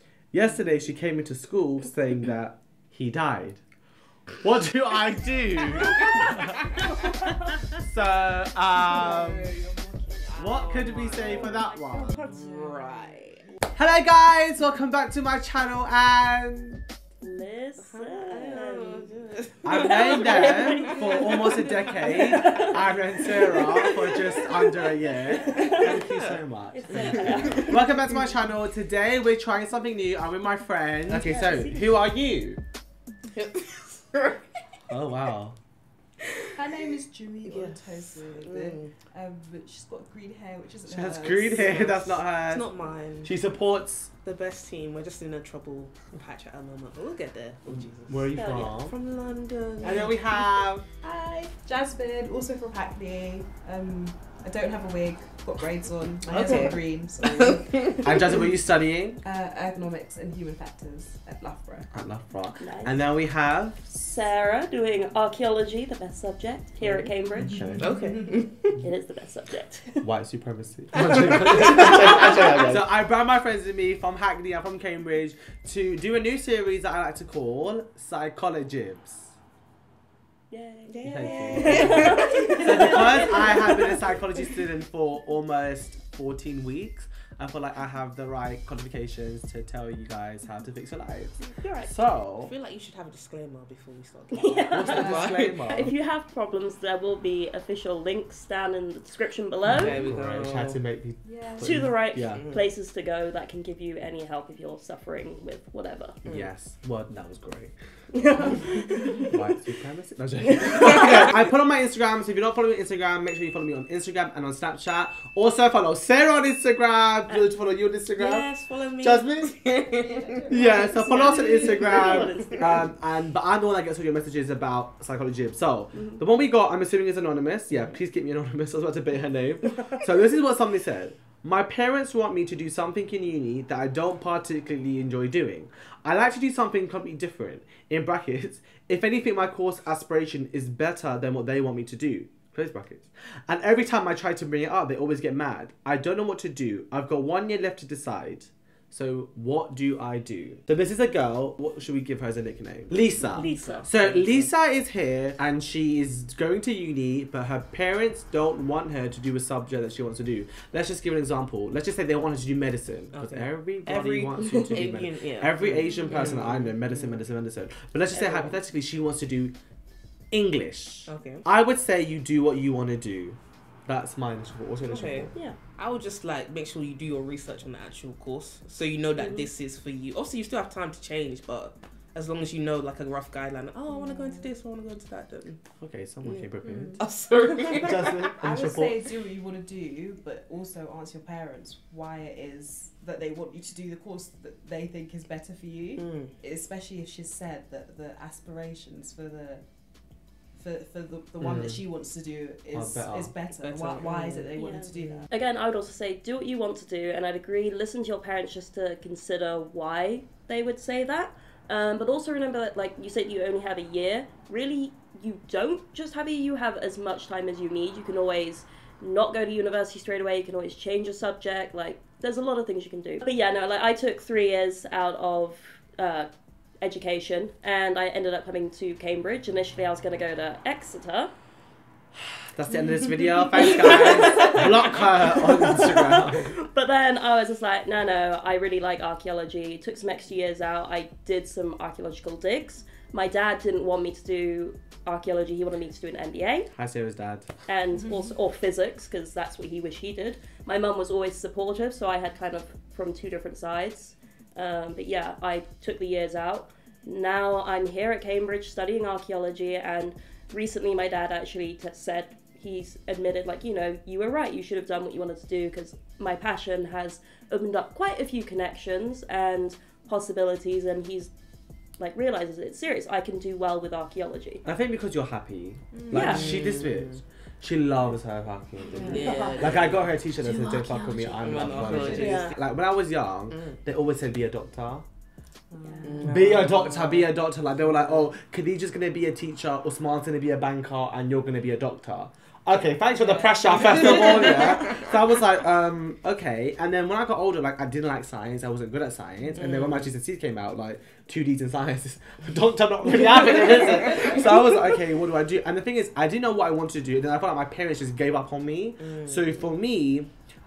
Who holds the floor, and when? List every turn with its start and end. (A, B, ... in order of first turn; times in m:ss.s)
0:00.3-0:03.6 A
0:04.4-0:09.6 A
0:08.9-0:10.1 B
0:09.1-0:10.3 C
0:10.3-0:13.5 D
0:10.4-0:12.2 A
0:11.1-0:12.5 C
0:12.3-0:12.9 B
0:13.8-0:16.8 A
0:17.2-0:19.1 C
0:17.8-0:22.6 D
0:19.6-0:32.6 A
0:19.9-0:24.4 C
0:25.1-0:26.0 C
0:25.5-0:26.4 D
0:26.7-0:27.9 C
0:26.9-0:27.8 D
0:31.1-0:31.9 C
0:33.3-0:34.4 D
0:34.9-0:35.6 A
0:36.6-0:41.8 B
0:37.4-0:38.9 D
0:40.9-0:42.7 A
0:41.5-0:43.3 D
0:43.2-0:44.1 A
0:44.2-0:50.4 D
0:47.7-0:49.0 A
0:48.4-0:48.7 C
0:49.8-0:50.9 A
0:51.0-0:58.6 B
0:56.3-0:58.0 D
0:58.0-0:59.2 A
0:59.2-1:01.9 B
1:01.9-1:03.9 A
1:02.6-1:03.0 C
1:03.9-1:07.8 C
1:06.8-1:07.9 A
1:07.8-1:08.8 D
1:07.8-1:08.2 B
1:08.8-1:10.1 C
1:10.0-1:19.3 A
1:11.6-1:12.7 D
1:20.5-1:24.0 C
1:20.9-1:23.3 D
1:21.0-1:32.5 A
1:31.6-1:31.9 C
1:32.4-1:35.6 D
1:34.3-1:40.0 C
1:34.7-1:35.9 A
1:35.0-1:35.4 B
1:39.6-1:40.8 D
1:39.8-1:42.5 A
1:41.2-1:41.8 B
1:41.6-1:46.2 C
1:42.3-1:42.7 D
1:46.2-1:47.7 A
1:48.1-1:49.4 C
1:49.3-1:58.5 A
1:50.6-1:51.3 C
1:58.2-2:00.4 D
1:59.0-1:59.5 A
1:59.9-2:02.2 B
2:00.5-2:49.6 A
2:00.9-2:02.9 C
2:01.2-2:02.6 D
2:05.9-2:06.2 C
2:07.7-2:08.0 D
2:33.2-2:33.9 C
2:33.4-2:34.5 D
2:43.1-2:47.2 D
2:44.4-2:44.8 C
2:45.9-2:46.2 C
2:48.1-2:48.6 C
2:50.3-2:55.4 A
2:51.1-2:51.4 D
2:54.8-3:05.6 D
2:59.2-2:59.5 C
3:05.8-3:07.0 A
3:06.2-3:08.3 D
3:07.7-3:09.0 A
3:08.4-3:19.6 B
3:16.0-3:16.3 D
3:20.6-3:25.3 B
3:21.4-3:21.8 A
3:22.7-3:23.3 A
3:23.5-3:24.5 D
3:24.0-3:46.3 C
3:46.8-3:51.3 C
3:52.5-3:56.6 A
3:53.7-4:06.7 C
4:06.7-4:07.5 A
4:07.7-4:31.3 C
4:08.0-4:08.4 B
4:32.0-4:34.6 C
4:34.6-4:45.0 A
4:36.0-4:36.2 B
4:36.1-4:36.5 C
4:36.2-4:37.2 D
4:38.9-4:39.7 B
4:39.0-4:40.2 D
4:40.7-4:42.3 B
4:41.4-4:42.6 D
4:42.1-4:42.6 C
4:43.5-4:43.8 D
4:45.7-4:46.4 B
4:45.8-4:46.1 C
4:46.0-4:47.3 D
4:46.2-5:10.3 A
4:53.1-4:54.8 B
4:59.6-5:00.1 D
5:09.0-5:09.4 D